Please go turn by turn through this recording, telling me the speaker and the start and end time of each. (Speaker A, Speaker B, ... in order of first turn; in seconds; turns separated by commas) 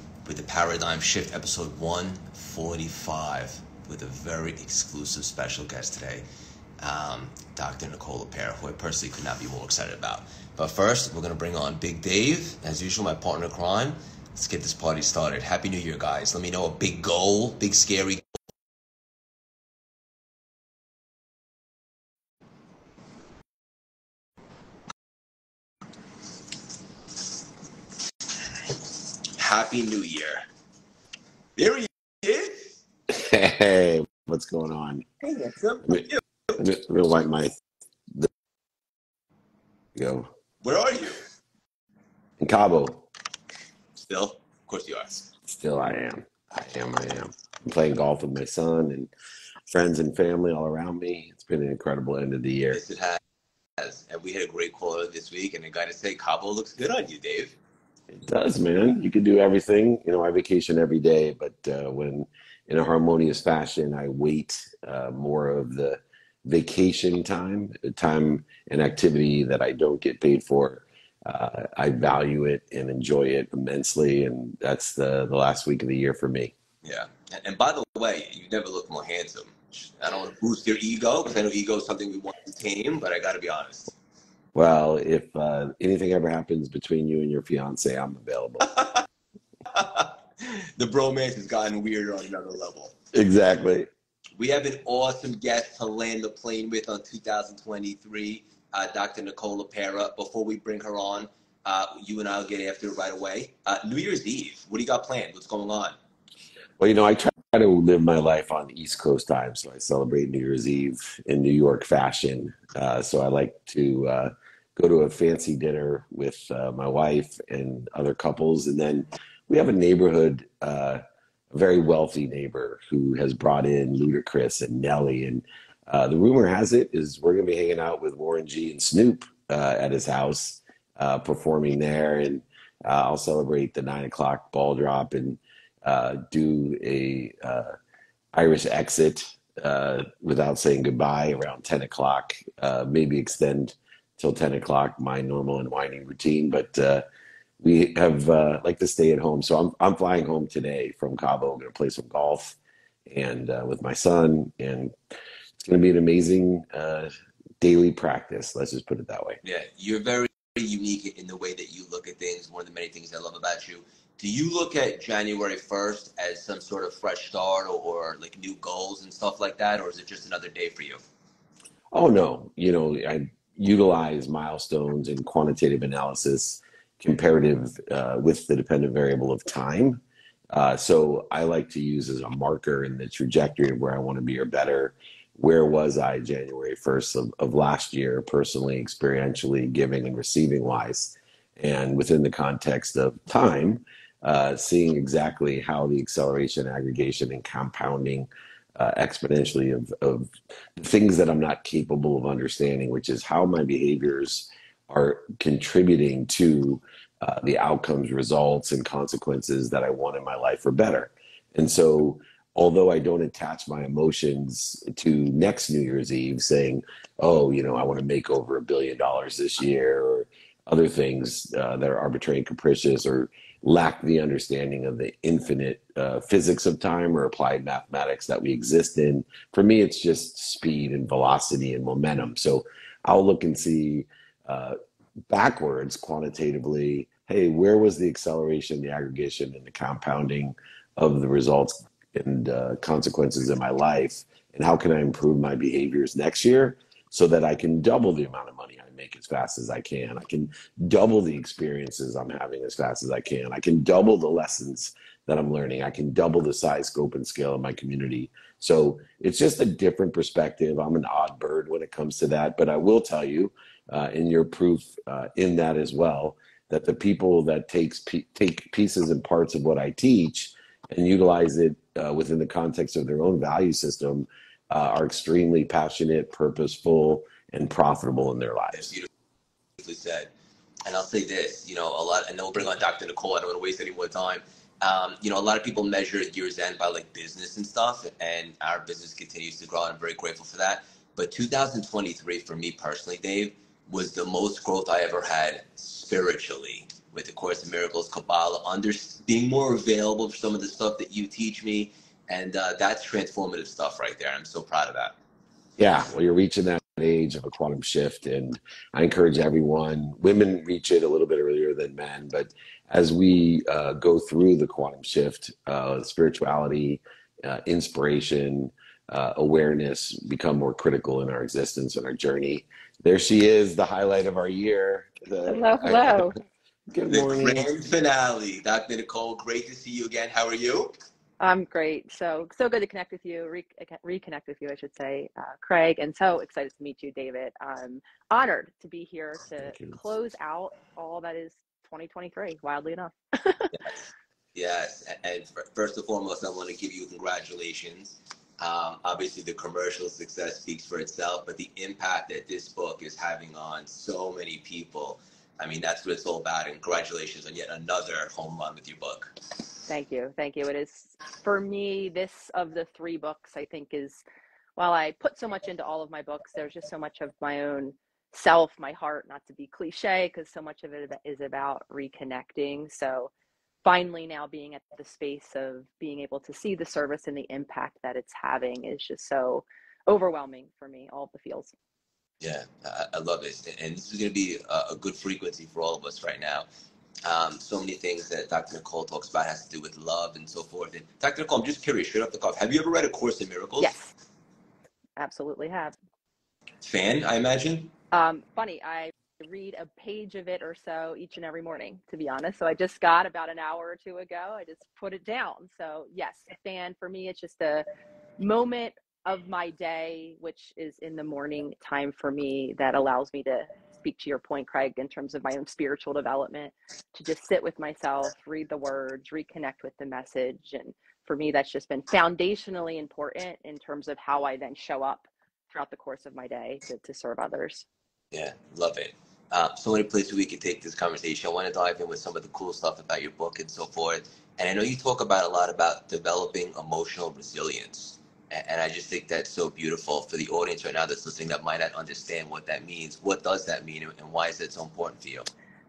Speaker A: 0.2-6.2, Speaker A: 6.8-18.2, Speaker A: 29.3-30.5, Speaker A: 31.6-32.8, Speaker B: 33.1-35.0, Speaker A: 35.2-36.2, Speaker B: 35.8-37.5, Speaker B: 39.9-40.3, Speaker A: 40.6-41.2, Speaker B: 42.4-43.0, Speaker A: 44.0-45.3, Speaker B: 45.5-49.1, Speaker B: 49.7-52.8, Speaker A: 52.7-53.2, Speaker A: 53.8-57.6, Speaker B: 58.1-76.5, Speaker A: 76.8-83.9, Speaker B: 84.5-88.7, Speaker A: 89.7-93.0, Speaker B: 93.1-93.9, Speaker A: 94.4-105.9, Speaker B: 106.8-137.7, Speaker B: 138.3-147.0, Speaker B: 147.6-154.9, Speaker B: 155.6-159.4, Speaker A: 159.4-171.0, Speaker B: 171.9-180.0, Speaker B: 180.5-234.8, Speaker B: 235.3-278.9, Speaker A: 278.8-279.1, Speaker A: 279.8-280.3, Speaker A: 280.9-305.2, Speaker B: 305.8-326.3, Speaker C: 325.4-326.4, Speaker B: 326.9-327.7, Speaker A: 327.1-330.9, Speaker C: 331.4-343.7, Speaker B: 339.6-340.0, Speaker A: 344.5-359.3, Speaker C: 359.9-364.2, Speaker C: 364.8-373.3, Speaker C: 373.8-381.7, Speaker A: 382.4-386.7, Speaker A: 387.2-393.9, Speaker C: 393.8-394.1, Speaker C: 395.2-395.9, Speaker A: 396.8-397.9, Speaker C: 398.1-407.8, Speaker C: 408.4-427.9, Speaker A: 428.3-445.5